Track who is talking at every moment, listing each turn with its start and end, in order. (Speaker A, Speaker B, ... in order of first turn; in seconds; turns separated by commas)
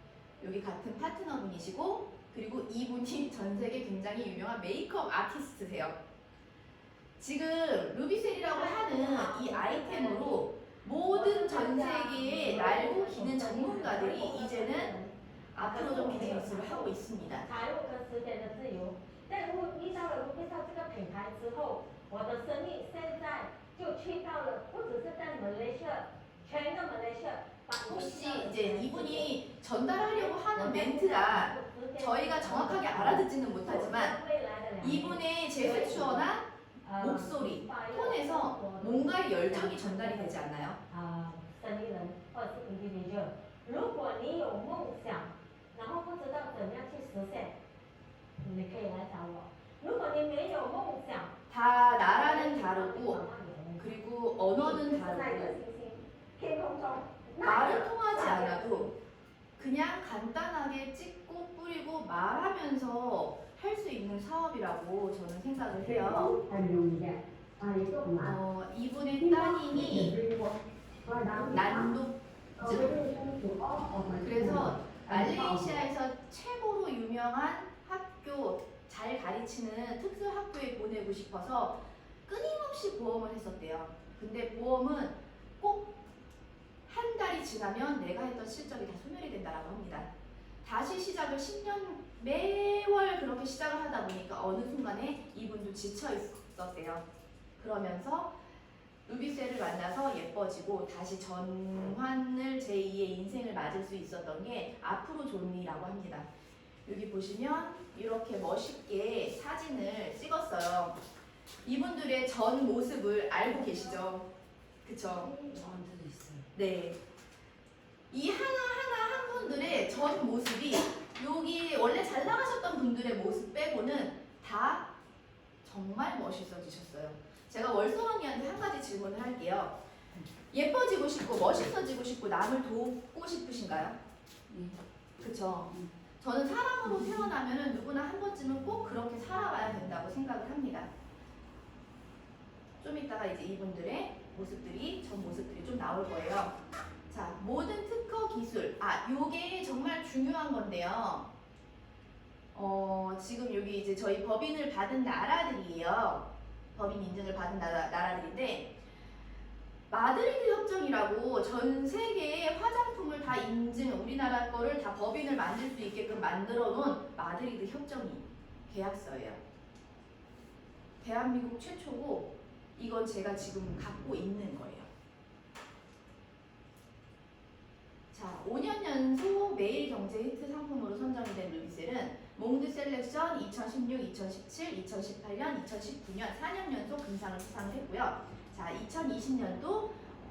Speaker A: 0.4-6.0, Speaker A: 7.2-14.9, Speaker B: 8.5-10.4, Speaker B: 11.1-16.9, Speaker A: 15.5-17.6, Speaker B: 17.4-36.3, Speaker A: 27.8-34.2, Speaker A: 34.8-40.8, Speaker B: 36.8-40.3, Speaker B: 40.9-47.6, Speaker B: 48.4-51.3, Speaker A: 51.5-53.2, Speaker B: 51.9-53.9, Speaker A: 53.8-55.6, Speaker B: 54.5-58.9, Speaker A: 57.4-58.9, Speaker A: 59.6-66.3, Speaker C: 65.8-68.4, Speaker A: 68.2-70.2, Speaker C: 69.2-71.9, Speaker A: 71.5-72.9, Speaker C: 72.6-75.8, Speaker A: 74.2-85.9, Speaker A: 86.9-90.1, Speaker A: 90.6-97.0, Speaker A: 97.6-98.3, Speaker A: 99.0-106.3, Speaker A: 106.8-111.0, Speaker A: 111.6-114.3, Speaker A: 114.8-115.3, Speaker C: 115.1-116.5, Speaker A: 116.5-117.0, Speaker A: 118.1-124.9, Speaker A: 125.6-129.8, Speaker A: 130.5-134.0, Speaker C: 134.5-134.8, Speaker A: 135.2-140.9, Speaker A: 142.8-146.6, Speaker A: 147.1-151.3, Speaker A: 152.5-158.7, Speaker A: 159.9-169.4, Speaker A: 171.0-174.9, Speaker A: 178.1-189.9